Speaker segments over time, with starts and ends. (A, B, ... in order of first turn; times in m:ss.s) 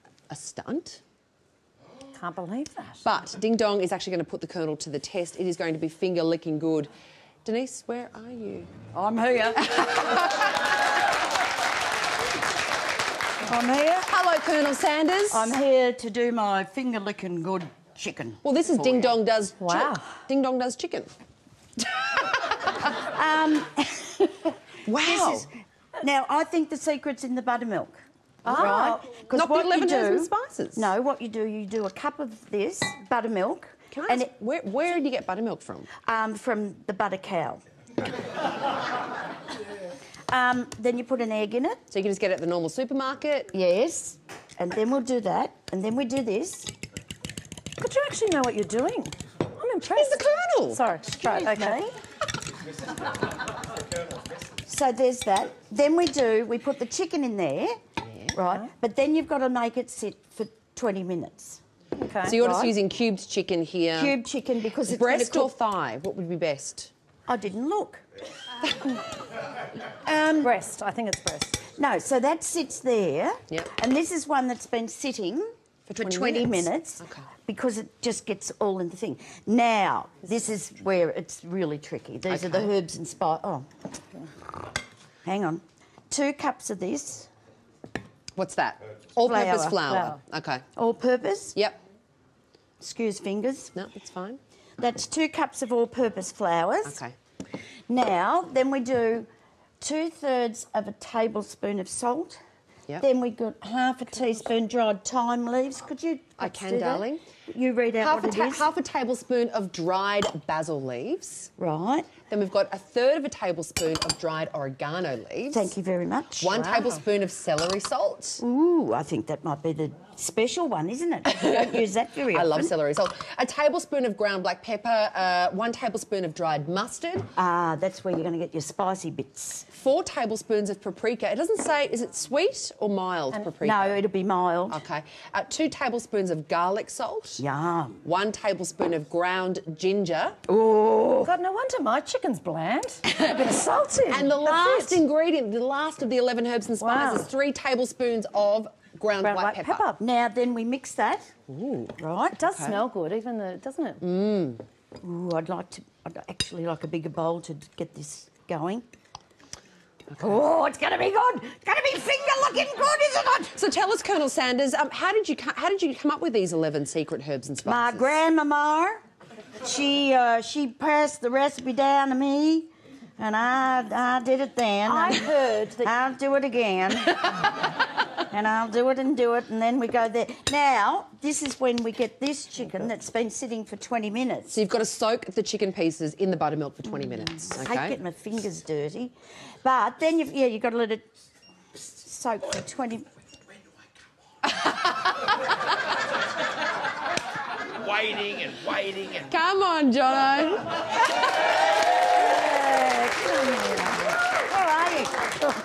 0:00.3-0:01.0 A
0:02.1-0:03.0 B
0:03.0-0:06.9 A
0:07.4-0:08.7 A
0:08.9-0:10.2 C
0:09.6-0:10.5 A
0:13.4-0:14.1 C
0:14.1-0:15.6 A
0:15.3-0:18.4 C
0:18.4-0:21.1 A
0:19.6-0:20.1 B
0:22.3-0:22.7 A
0:22.8-0:25.5 C
0:24.8-0:25.5 A
0:26.0-0:34.3 C
0:28.4-0:30.9 A
0:28.5-0:29.0 B
0:33.9-0:35.9 A
0:36.0-0:37.6 C
0:40.3-0:41.8 C
0:41.9-0:43.5 A
0:43.5-0:46.7 C
0:47.8-0:51.9 B
0:49.9-0:50.8 A
0:51.1-0:51.9 C
0:54.7-0:57.8 C
0:58.3-1:01.6 C
1:02.0-1:02.4 B
1:02.2-1:04.2 A
1:02.3-1:02.7 C
1:04.0-1:05.5 C
1:04.8-1:06.9 A
1:07.3-1:08.0 C
1:10.0-1:10.6 C
1:10.4-1:11.6 B
1:11.7-1:23.7 C
1:15.9-1:17.3 A
1:22.3-1:22.7 A
1:25.2-1:27.3 C
1:28.4-1:30.6 A
1:29.2-1:30.0 C
1:29.9-1:30.2 B
1:30.8-1:31.6 C
1:31.6-1:31.8 A
1:32.8-1:33.7 C
1:33.8-1:34.4 A
1:34.8-1:37.0 C
1:36.8-1:37.1 A
1:37.9-1:39.3 C
1:39.8-1:42.4 C
1:43.0-1:48.7 C
1:46.4-1:47.2 A
1:48.0-1:51.5 A
1:51.6-1:52.1 C
1:52.3-1:55.7 A
1:55.5-1:56.7 C
1:56.4-1:58.4 A
1:56.5-1:57.0 B
1:58.4-2:02.7 C
2:01.3-2:01.8 A
2:02.3-2:07.3 A
2:07.4-2:09.7 C
2:09.7-2:14.0 A
2:13.6-2:14.8 C
2:14.7-2:17.4 A
2:17.4-2:18.0 C
2:18.0-2:20.4 A
2:20.5-2:21.3 C
2:21.2-2:25.0 B
2:24.1-2:29.9 A
2:26.8-2:27.3 B
2:29.2-2:30.0 B
2:30.0-2:31.3 C
2:31.5-2:31.9 A
2:32.0-2:32.4 C
2:32.4-2:34.0 B
2:32.5-2:32.8 A
2:34.0-2:34.6 A
2:35.0-2:38.8 C
2:40.2-2:43.5 C
2:43.6-2:48.2 A
2:47.6-2:49.0 C
2:49.6-2:57.5 C
2:54.8-2:56.0 B
2:58.3-3:04.6 C
3:04.5-3:08.0 A
3:07.4-3:11.0 C
3:11.8-3:13.1 C
3:14.4-3:15.4 A
3:18.8-3:20.9 A
3:22.3-3:25.3 C